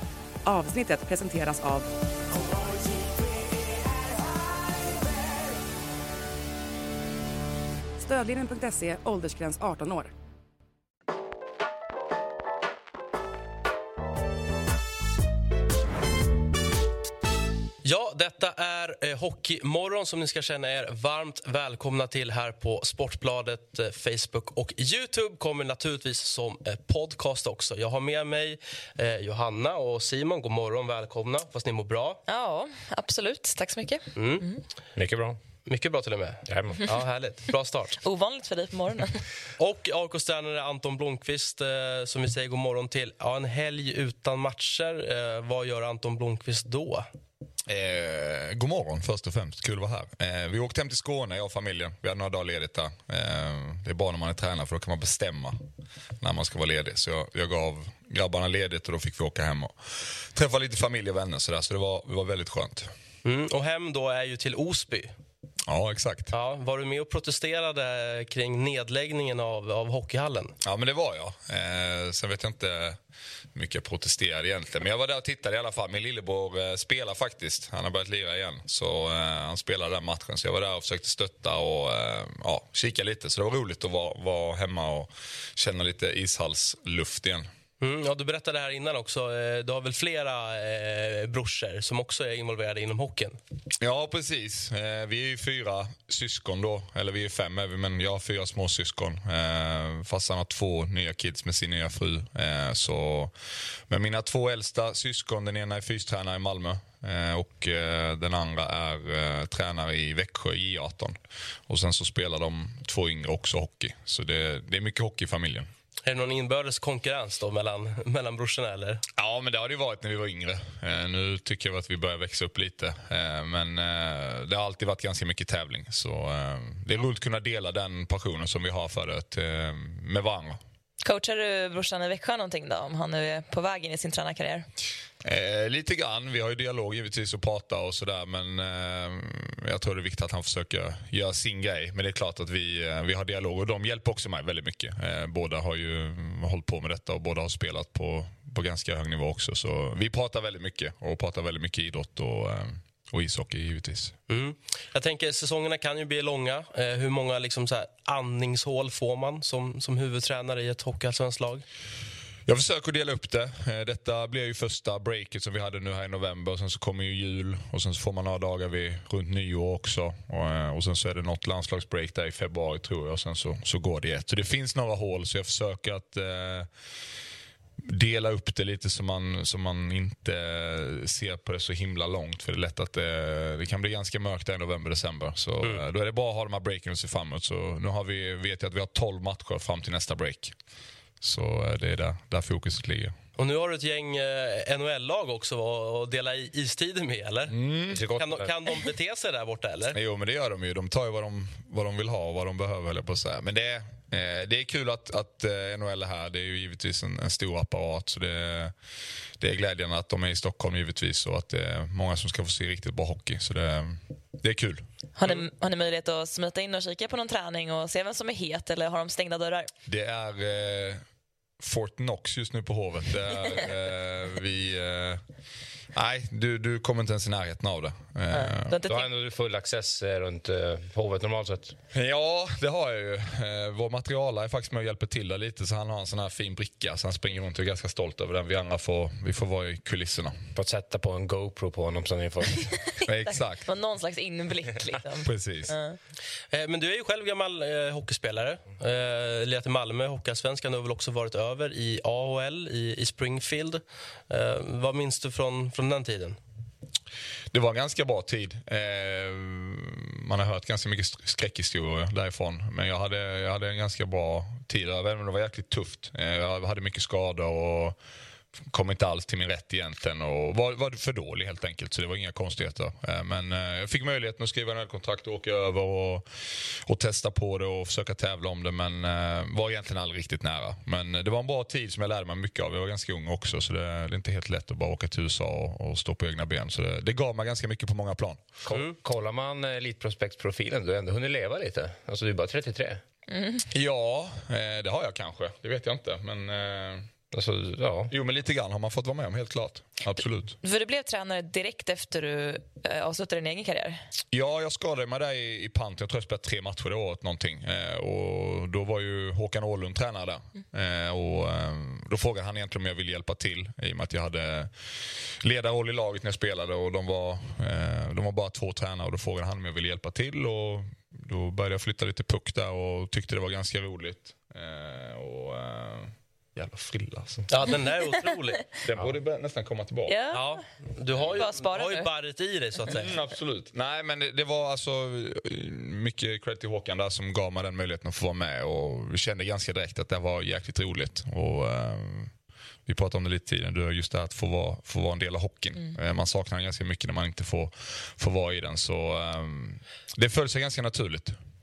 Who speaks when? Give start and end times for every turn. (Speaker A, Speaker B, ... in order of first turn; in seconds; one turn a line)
Speaker A: 0.5-1.9
Speaker A: 8.0-10.1
Speaker B: 17.8-32.2
Speaker C: 32.3-34.6
Speaker B: 34.2-34.5
Speaker D: 35.0-35.4
Speaker B: 35.7-38.0
Speaker D: 36.5-37.1
Speaker C: 38.0-39.2
Speaker B: 39.6-47.1
Speaker E: 47.7-55.6
Speaker E: 56.2-62.9
Speaker B: 63.2-65.1
Speaker E: 65.7-66.3
Speaker B: 66.3-70.5
Speaker E: 70.6-73.0
Speaker E: 73.5-87.5
Speaker B: 87.8-93.4
Speaker E: 93.8-103.3
Speaker E: 103.9-115.7
Speaker B: 116.0-119.0
Speaker E: 119.2-130.6
Speaker C: 131.0-134.7
Speaker E: 135.2-154.2
Speaker B: 154.3-161.7
Speaker E: 162.5-176.7
Speaker E: 177.8-190.6
Speaker E: 191.2-193.2
Speaker B: 193.4-197.6
Speaker E: 197.5-198.0
Speaker D: 197.9-198.8
Speaker B: 198.2-200.0
Speaker E: 199.9-208.8
Speaker E: 209.4-214.9
Speaker C: 215.2-219.7
Speaker E: 219.9-221.0
Speaker E: 221.6-225.2
Speaker E: 225.9-228.8
Speaker C: 228.3-229.1
Speaker D: 228.9-231.8
Speaker E: 231.9-240.4
Speaker D: 240.6-242.7
Speaker E: 243.1-243.7
Speaker C: 243.3-246.0
Speaker E: 245.2-245.7
Speaker B: 246.5-256.4
Speaker E: 257.5-268.0
Speaker E: 268.7-288.4
Speaker D: 288.6-293.0
Speaker C: 293.3-293.7
Speaker E: 293.7-297.1
Speaker D: 297.3-298.1
Speaker E: 298.1-300.5
Speaker C: 300.6-304.0
Speaker E: 304.3-314.7
Speaker E: 315.4-327.5
Speaker B: 327.5-328.6
Speaker E: 328.8-330.2
Speaker C: 330.1-330.6
Speaker B: 330.3-333.2
Speaker C: 331.3-332.1
Speaker E: 332.9-342.3
Speaker E: 342.9-351.4